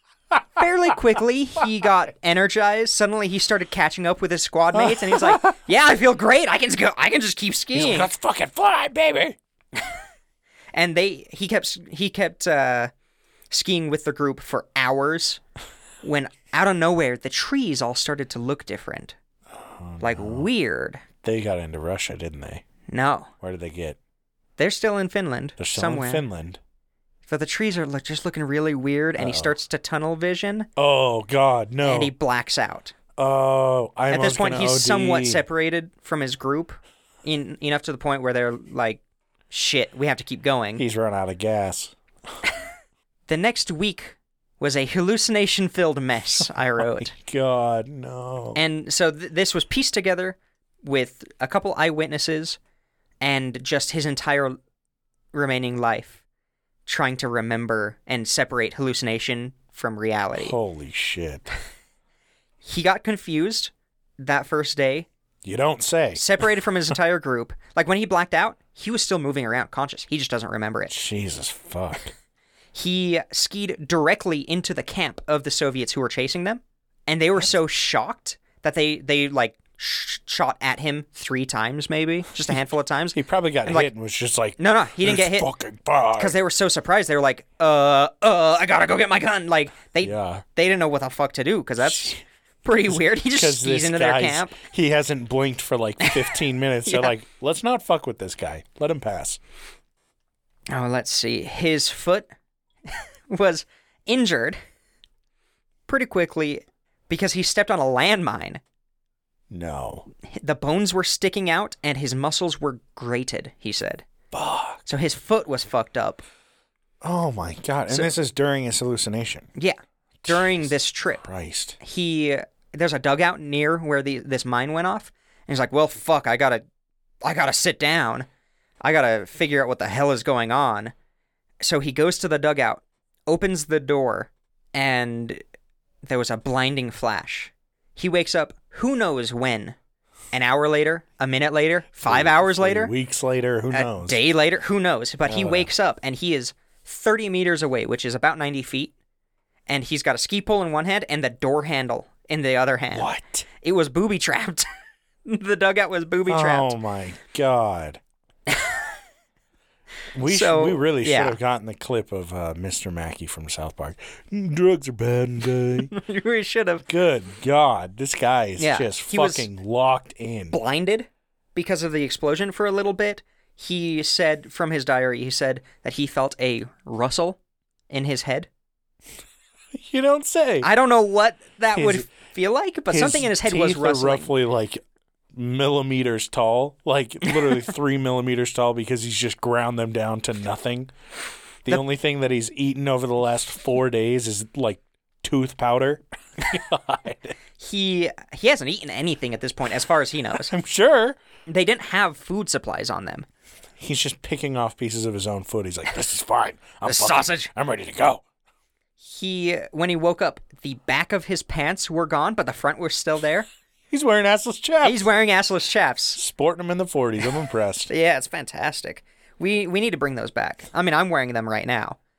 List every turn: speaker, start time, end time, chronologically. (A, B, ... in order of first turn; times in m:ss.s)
0:00.3-0:00.6 A
0:00.6-0:08.1 B
0:04.7-0:05.5 A
0:07.7-0:09.4 A
0:10.7-0:12.9 B
0:13.5-0:15.4 B
0:16.0-0:19.1 B
0:19.5-0:20.5 A
0:20.0-0:21.0 B
0:21.2-0:22.6 A
0:22.9-0:23.3 B
0:23.4-0:24.0 A
0:24.6-0:26.2 B
0:25.6-0:26.6 A
0:27.3-0:30.7 B
0:29.2-0:29.6 A
0:30.8-0:32.1 A
0:31.8-0:32.9 B
0:33.2-0:35.4 A
0:34.1-0:40.8 B
0:40.8-0:42.0 A
0:43.3-0:47.1 B
0:46.8-0:48.6 A
0:48.5-0:52.6 B
0:53.2-0:54.6 B
0:55.3-0:56.2 B
0:56.8-1:00.6 B
1:00.4-1:01.5 A
1:02.6-1:05.1 B
1:05.4-1:06.2 A
1:06.1-1:10.9 B
1:10.9-1:12.1 A
1:12.7-1:23.9 B
1:23.1-1:26.3 A
1:24.6-1:25.5 B
1:26.2-1:34.6 B
1:30.0-1:30.4 A
1:31.8-1:32.2 A
1:32.9-1:39.4 A
1:36.0-1:36.3 B
1:36.8-1:37.1 B
1:40.7-1:42.3 B
1:42.8-1:44.6 B
1:45.9-1:48.6 B
1:49.5-1:50.1 A
1:50.2-1:54.1 B
1:54.3-1:54.8 A
1:54.8-1:56.2 B
1:57.0-1:59.5 A
1:59.5-2:01.2 B
2:00.2-2:01.8 A
2:01.8-2:06.6 B
2:07.2-2:08.2 B
2:08.8-2:10.9 B
2:11.6-2:15.4 B
2:16.0-2:19.8 B
2:20.3-2:22.9 B
2:22.0-2:24.2 A
2:23.7-2:28.9 B
2:25.2-2:25.7 A
2:29.7-2:33.1 B
2:32.9-2:33.4 A
2:33.6-2:34.6 B
2:35.2-2:36.7 B
2:36.3-2:38.0 A
2:38.5-2:38.8 B
2:40.1-2:45.9 A
2:40.3-2:41.4 B
2:45.8-2:46.9 B
2:46.8-2:50.6 A
2:48.6-2:49.5 B
2:50.5-2:57.4 B
2:57.9-2:58.5 B
2:59.7-3:00.7 A
3:00.6-3:04.3 B
3:01.7-3:02.1 A
3:02.9-3:04.8 A
3:05.3-3:10.9 A
3:07.2-3:07.6 B
3:11.6-3:17.4 A
3:17.6-3:20.5 B
3:20.4-3:21.2 A
3:21.5-3:23.2 B
3:23.8-3:28.2 A
3:26.8-3:27.5 B
3:29.0-3:33.5 B
3:33.9-3:35.1 A
3:34.8-3:36.2 B
3:36.2-3:37.9 A
3:37.9-3:42.0 B